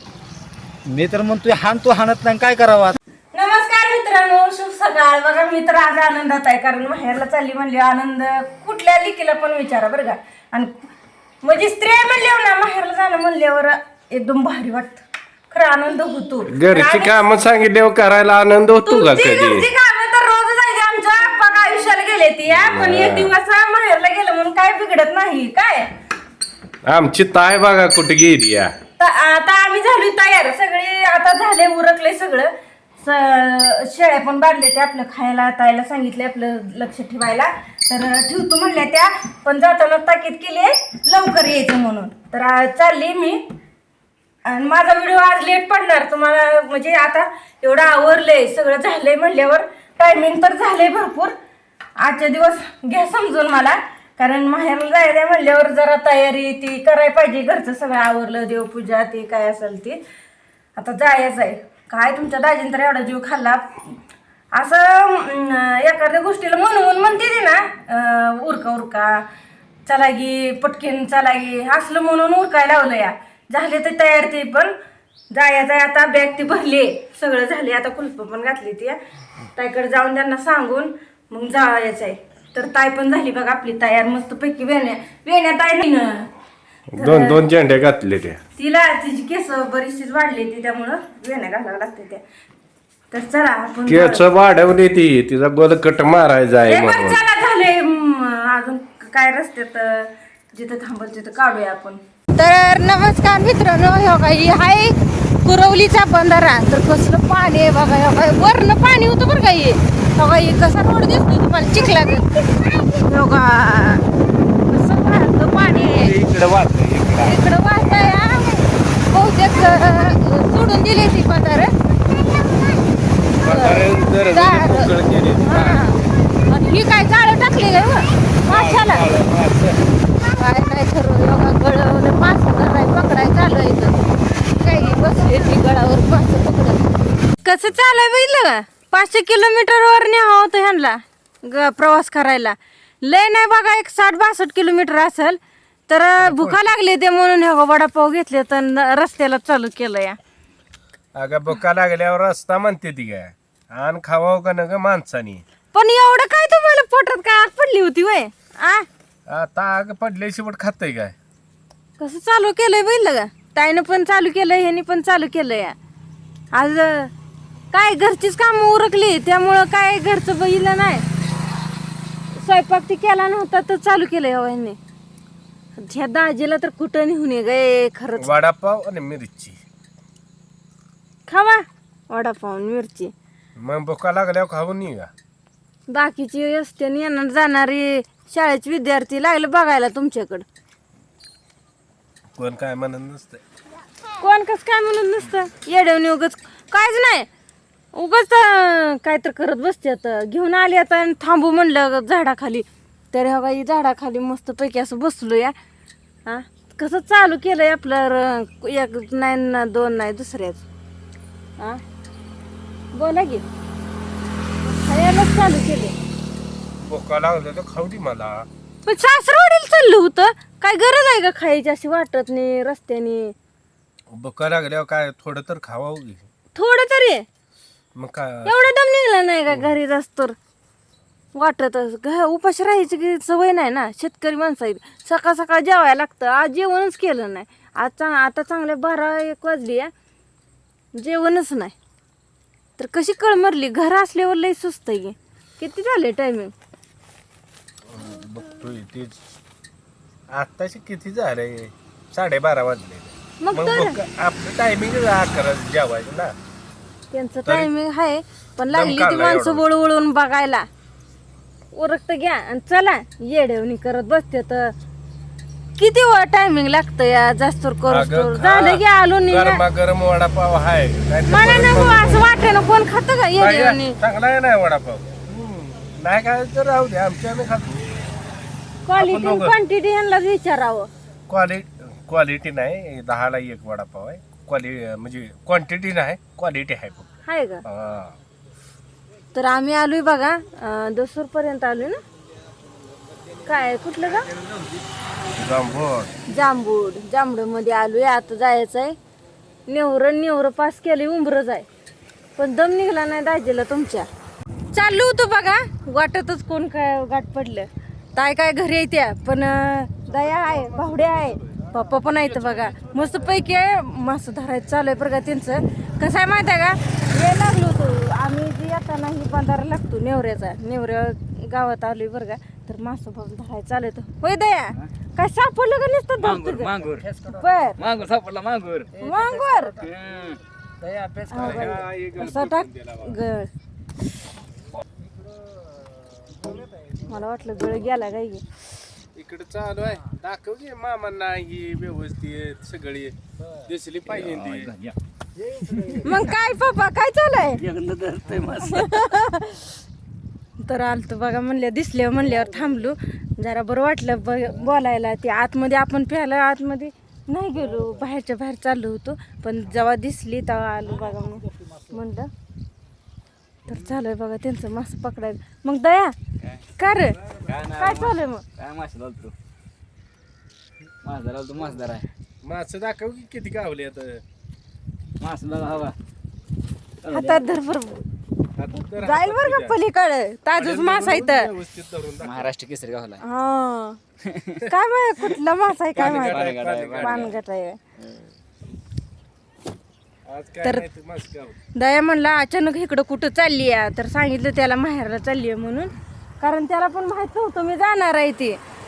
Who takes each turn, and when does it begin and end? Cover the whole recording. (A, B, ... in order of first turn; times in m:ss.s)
0:00.9-0:03.0 A
0:03.3-0:10.7 B
0:11.4-0:17.2 B
0:16.5-0:19.7 C
0:18.8-0:25.9 B
0:22.5-0:23.3 C
0:26.8-0:28.7 C
0:29.0-0:43.4 B
0:44.4-0:51.3 B
0:52.0-1:00.0 B
1:00.7-1:03.9 B
1:04.5-1:09.2 B
1:09.8-1:14.7 B
1:15.3-1:19.0 B
1:19.5-1:26.3 B
1:26.9-1:28.4 C
1:27.0-1:27.4 B
1:28.6-1:32.2 B
1:33.1-1:34.2 B
1:33.9-1:37.2 C
1:36.7-1:52.3 B
1:52.9-1:54.0 B
1:54.7-1:56.1 B
1:55.7-1:58.2 C
1:57.2-2:01.7 B
2:03.4-2:06.1 C
2:03.4-2:04.9 B
2:05.4-2:09.0 B
2:08.4-2:09.8 C
2:10.3-2:16.8 B
2:17.4-2:30.2 B
2:26.2-2:26.6 C
2:31.1-2:35.4 C
2:35.7-2:38.8 B
2:39.3-2:41.1 C
2:42.0-2:45.8 B
2:46.5-2:47.1 B
2:47.7-2:51.0 B
2:52.4-2:54.8 B
2:55.8-2:58.3 B
2:58.2-2:59.6 C
3:01.3-3:03.1 B
3:03.6-3:05.1 C
3:05.9-3:10.4 B
3:12.4-3:13.4 C
3:14.2-3:17.3 B
3:17.9-3:25.5 B
3:26.2-3:30.6 B
3:32.9-3:33.4 B
3:34.6-3:36.0 B
3:36.8-3:38.5 C
3:38.8-3:43.3 B
3:44.1-3:46.2 C
3:46.5-3:47.2 B
3:47.9-3:48.5 C
3:48.4-3:50.3 B
3:51.3-3:59.9 B
4:01.0-4:01.7 B
4:02.8-4:06.5 B
4:07.9-4:09.2 C
4:10.3-4:16.3 C
4:13.4-4:14.0 B
4:17.1-4:20.6 B
4:18.7-4:19.6 C
4:21.7-4:24.7 B
4:25.8-4:29.6 B
4:27.9-4:32.2 C
4:31.3-4:34.0 B
4:33.4-4:37.9 C
4:38.8-4:40.9 B
4:39.0-4:39.5 A
4:41.3-4:47.1 C
4:47.2-4:47.6 B
4:47.6-4:48.2 C
4:49.3-4:52.0 B
4:53.4-4:54.3 B
4:55.3-4:56.1 C
4:56.3-4:59.0 B
4:59.7-5:01.6 B
5:02.4-5:04.1 B
5:04.7-5:26.7 B
5:12.2-5:13.0 C
5:26.2-5:27.1 D
5:27.0-5:27.4 C
5:27.3-5:27.8 B
5:27.8-5:28.9 D
5:29.0-5:29.9 C
5:29.0-5:29.7 B
5:29.8-5:30.4 D
5:30.8-5:33.2 C
5:31.3-5:33.5 B
5:37.0-5:38.4 B
5:39.1-5:44.7 C
5:44.0-5:45.0 D
5:45.5-5:46.0 D
5:46.0-5:47.6 B
5:47.6-5:49.0 D
5:48.6-5:49.7 B
5:50.6-6:02.3 B
6:03.7-6:06.1 B
6:06.4-6:06.6 D
6:06.8-6:08.4 B
6:07.3-6:09.3 D
6:11.0-6:12.0 D
6:12.4-6:14.2 C
6:15.2-6:16.0 D
6:17.0-6:17.4 D
6:17.1-6:18.0 B
6:18.6-6:19.8 C
6:19.0-6:21.5 B
6:20.5-6:22.5 C
6:22.2-6:23.2 D
6:23.2-6:24.0 B
6:24.2-6:24.6 D
6:24.6-6:27.8 B
6:25.9-6:27.3 C
6:26.0-6:27.4 D
6:30.2-6:31.6 C
6:30.6-6:30.9 B
6:31.7-6:38.6 B